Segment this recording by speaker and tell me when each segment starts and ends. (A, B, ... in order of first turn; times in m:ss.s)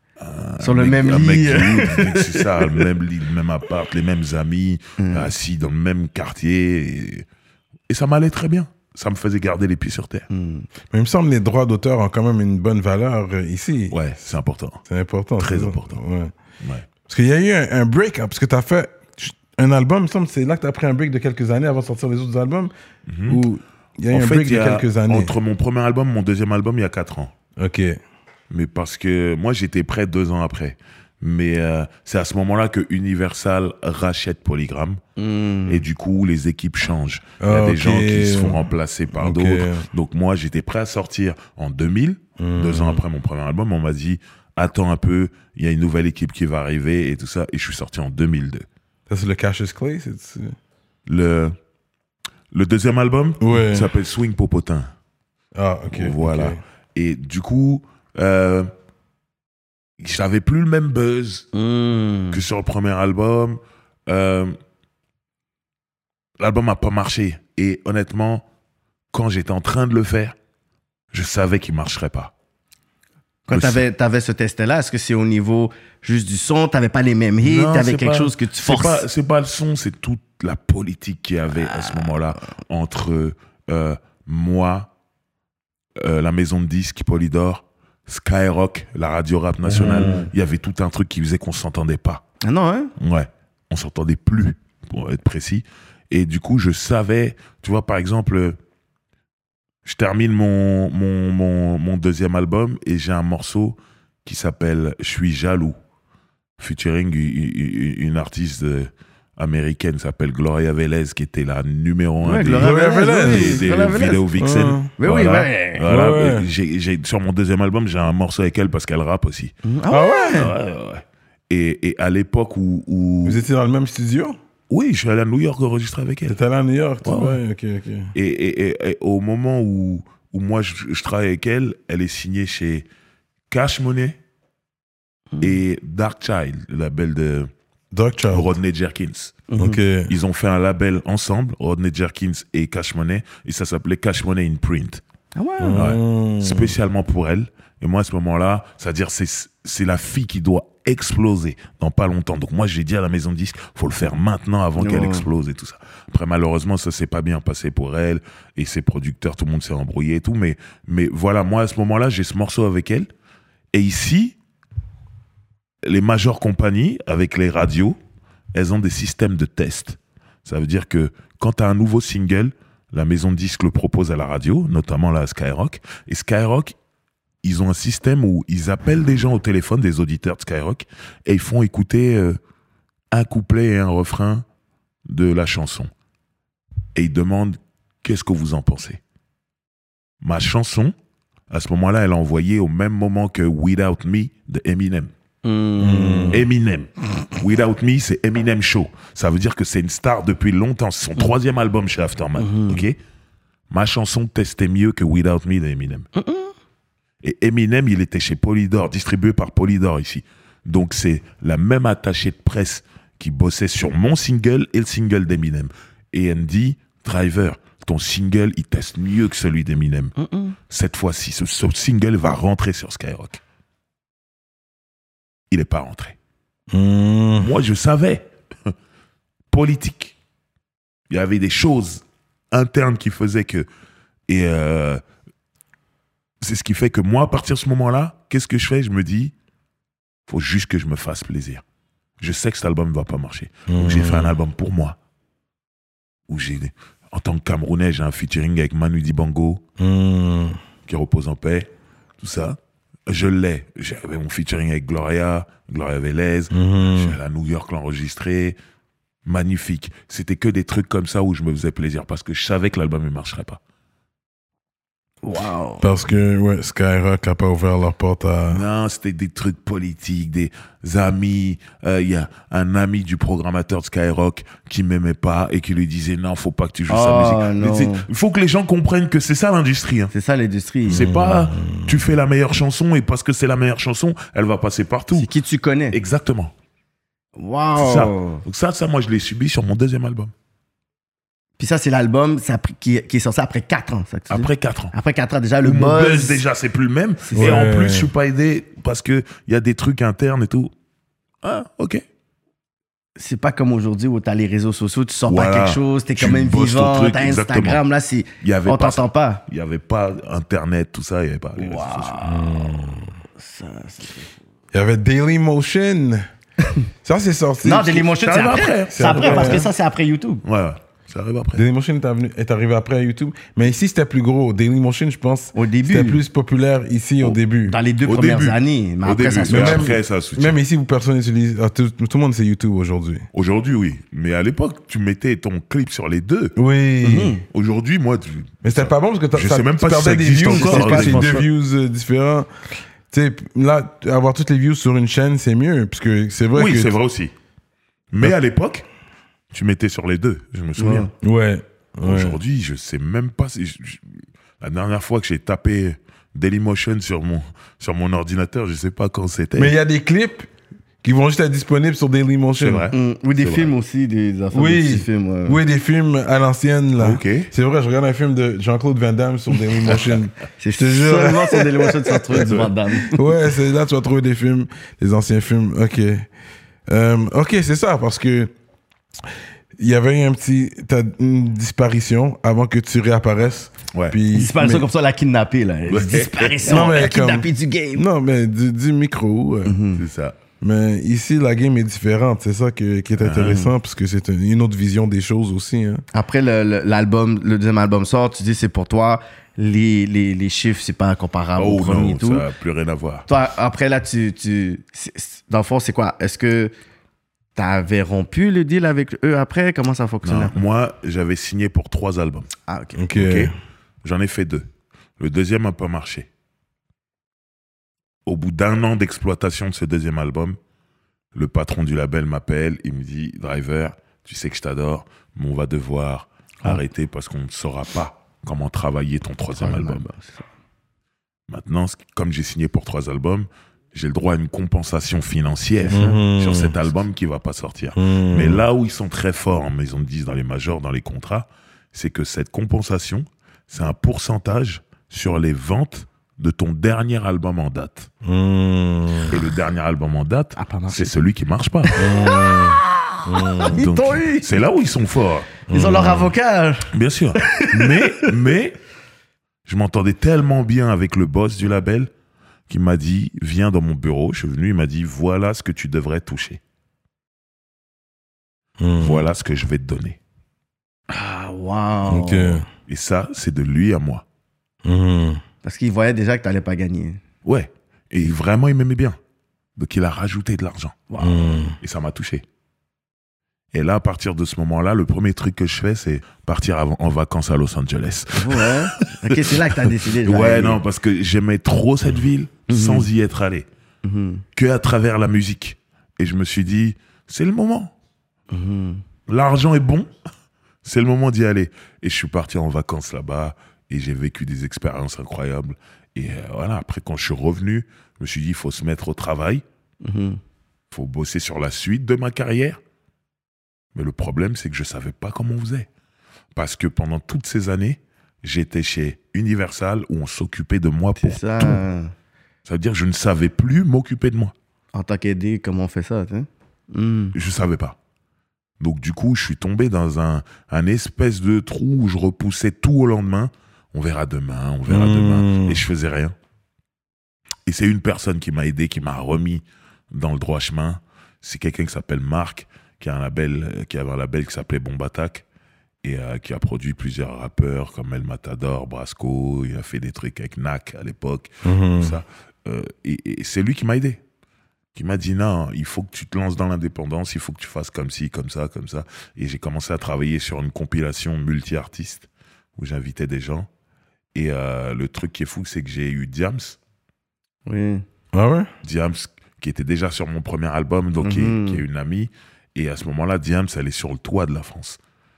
0:00.2-0:07.3 A
0:00.6-0:02.9 B
0:05.0-0:05.3 B
0:07.9-0:10.3 A
0:10.3-0:10.7 B
0:10.9-0:14.0 C
0:13.9-0:14.8 A
0:14.9-0:16.3 C
0:15.4-0:16.0 A
0:16.6-0:16.9 A
0:17.1-0:22.7 C
0:23.1-0:23.4 A
0:23.3-0:25.3 C
0:24.1-0:27.3 A
0:27.6-0:28.0 C
0:28.5-0:35.0 A
0:35.2-0:35.8 B
0:35.6-0:48.6 A
0:37.4-0:39.9 C
0:42.4-0:43.0 C
0:49.1-0:50.6 C
0:51.1-0:51.6 A
0:52.5-0:54.9 A
0:53.4-0:53.9 C
0:55.6-0:56.6 C
0:55.9-0:58.7 A
1:00.0-1:01.5 A
1:01.5-1:02.4 B
1:02.3-1:04.6 A
1:06.4-1:08.4 A
1:09.1-1:10.4 A
1:11.1-1:12.3 A
1:13.5-1:19.1 B
1:13.5-1:13.8 A
1:17.4-1:24.9 A
1:21.6-1:22.2 B
1:26.0-1:32.2 A
1:29.7-1:30.3 C
1:32.4-1:32.9 B
1:33.0-1:38.6 A
1:39.8-1:45.8 A
1:46.6-1:59.5 A
1:52.2-1:54.2 B
1:52.6-1:53.9 C
1:54.4-1:54.9 C
1:55.0-1:55.8 B
1:55.8-1:56.5 C
1:59.6-2:00.5 B
1:59.9-2:00.5 C
2:00.3-2:03.4 A
2:03.2-2:04.4 C
2:04.7-2:06.4 A
2:06.3-2:08.1 C
2:07.0-2:07.4 A
2:08.1-2:12.9 A
2:13.5-2:14.2 A
2:15.3-2:15.6 B
2:15.4-2:17.5 A
2:17.9-2:18.6 C
2:18.3-2:19.5 A
2:19.5-2:19.8 B
2:19.6-2:20.1 C
2:20.1-2:25.0 A
2:25.4-2:25.9 B
2:25.6-2:26.7 C
2:25.8-2:43.1 A
2:34.8-2:35.3 B
2:43.7-2:44.4 A
2:45.8-2:48.0 A
2:48.5-2:56.8 A
2:57.4-3:02.4 A
3:03.1-3:04.4 A
3:05.1-3:05.9 A
3:07.0-3:09.0 A
3:10.2-3:10.9 A
3:11.5-3:15.1 A
3:15.4-3:16.4 B
3:15.8-3:16.4 C
3:16.3-3:23.0 A
3:22.4-3:22.9 B
3:23.7-3:26.1 A
3:26.1-3:26.5 B
3:27.2-3:40.1 A
3:40.2-3:40.6 B
3:40.7-3:43.4 A
3:45.5-3:46.2 A
3:46.7-3:47.5 C
3:47.4-3:48.7 A
3:49.5-3:50.2 A
3:51.1-3:53.7 A
3:54.3-3:55.0 A
3:56.4-3:59.3 A
4:00.3-4:01.6 A
4:02.2-4:05.0 A
4:03.7-4:04.4 C
4:06.3-4:09.6 A
4:09.8-4:10.6 C
4:10.9-4:18.6 A
4:16.5-4:17.2 C
4:19.2-4:23.6 A
4:25.2-4:25.8 B
4:25.8-4:28.6 C
4:28.5-4:40.1 A
4:36.9-4:38.1 B
4:40.1-4:41.1 B
4:40.9-4:42.0 C
4:40.9-4:45.3 A
4:45.1-4:46.0 B
4:45.9-4:46.5 A
4:47.4-4:48.4 B
4:47.8-4:50.3 A
4:51.6-4:56.4 B
4:54.3-4:54.9 A
4:55.6-5:00.7 A
4:57.3-4:57.6 B
4:57.4-4:58.1 C
5:01.4-5:02.0 A
5:03.2-5:09.4 B
5:05.3-5:07.8 A
5:08.4-5:12.2 A
5:11.6-5:12.7 B
5:12.2-5:13.1 C
5:13.4-5:14.3 B
5:14.7-5:16.3 C
5:17.0-5:18.1 C
5:17.6-5:20.4 B
5:18.2-5:19.7 A
5:18.9-5:19.7 C
5:20.4-5:21.6 A
5:21.5-5:27.8 C
5:25.6-5:26.2 B
5:27.6-5:30.0 B
5:28.1-5:30.6 A
5:29.5-5:33.3 C
5:33.3-5:36.6 A
5:36.6-5:37.4 C
5:37.0-5:37.4 B
5:37.5-5:41.4 A
5:38.6-5:42.5 C
5:40.5-5:41.4 B
5:43.1-5:46.9 C
5:46.6-5:47.3 A
5:48.1-5:48.9 A
5:49.5-5:51.1 A
5:50.8-5:51.1 B
5:51.2-5:52.4 C
5:52.0-5:59.7 A
5:59.6-6:00.5 C
6:01.0-6:02.9 C
6:02.6-6:03.7 A
6:02.9-6:05.6 B
6:04.5-6:12.5 C
6:07.0-6:07.5 A
6:10.6-6:13.2 B
6:12.4-6:12.7 A
6:13.0-6:16.3 C
6:16.9-6:18.5 C
6:19.8-6:24.8 C
6:23.9-6:24.2 A
6:24.3-6:28.0 B
6:25.9-6:26.9 A
6:26.6-6:29.8 C
6:29.6-6:30.0 B
6:30.0-6:30.4 A
6:30.6-6:36.0 C
6:33.2-6:33.6 A
6:33.4-6:33.7 B
6:36.1-6:42.5 B
6:41.6-6:43.3 A
6:43.3-6:46.7 B
6:47.6-6:50.6 B
6:50.2-6:52.5 A
6:52.7-6:53.5 B
6:53.0-6:53.5 C
6:54.0-6:54.6 A
6:55.2-6:56.3 A
6:58.3-7:00.6 A
7:01.3-7:10.1 A
7:09.6-7:10.4 B
7:11.5-7:28.1 A
7:15.8-7:16.2 B
7:15.9-7:16.8 C
7:18.0-7:18.6 C
7:28.2-7:29.4 C
7:29.2-7:32.1 A
7:30.6-7:31.1 B
7:31.9-7:34.6 B
7:32.0-7:33.8 C
7:33.6-7:35.5 A
7:35.7-7:38.3 B
7:35.7-7:36.3 C
7:36.9-7:38.8 A
7:39.6-7:42.1 A
7:42.7-7:46.6 A
7:48.8-7:49.2 C
7:49.0-7:50.2 A
7:51.1-7:52.6 B
7:52.1-7:52.6 C
7:52.9-7:54.2 A
7:54.8-7:55.4 C
7:55.6-7:57.2 B
7:57.4-7:59.2 A
7:59.8-8:01.2 A
8:01.1-8:01.6 B
8:01.2-8:01.8 C
8:01.8-8:02.4 A
8:03.7-8:13.7 A
8:08.4-8:10.8 B
8:12.7-8:13.1 B
8:14.0-8:14.4 B
8:14.6-8:17.9 A
8:18.5-8:19.0 B
8:19.3-8:20.1 A
8:20.8-8:29.6 A
8:30.0-8:30.4 B
8:30.9-8:32.8 A
8:33.9-8:35.9 A
8:36.6-8:41.8 A
8:41.2-8:42.1 B
8:42.6-8:44.6 A
8:44.9-8:47.4 B
8:47.3-8:48.0 A
8:48.8-8:56.3 A
8:54.9-8:55.8 C
8:57.6-9:05.4 A
9:06.0-9:14.2 A
9:11.6-9:12.2 C
9:14.9-9:23.7 A
9:24.3-9:26.8 A
9:27.7-9:28.0 B
9:28.3-9:28.7 C
9:28.8-9:35.0 A
9:31.2-9:31.8 B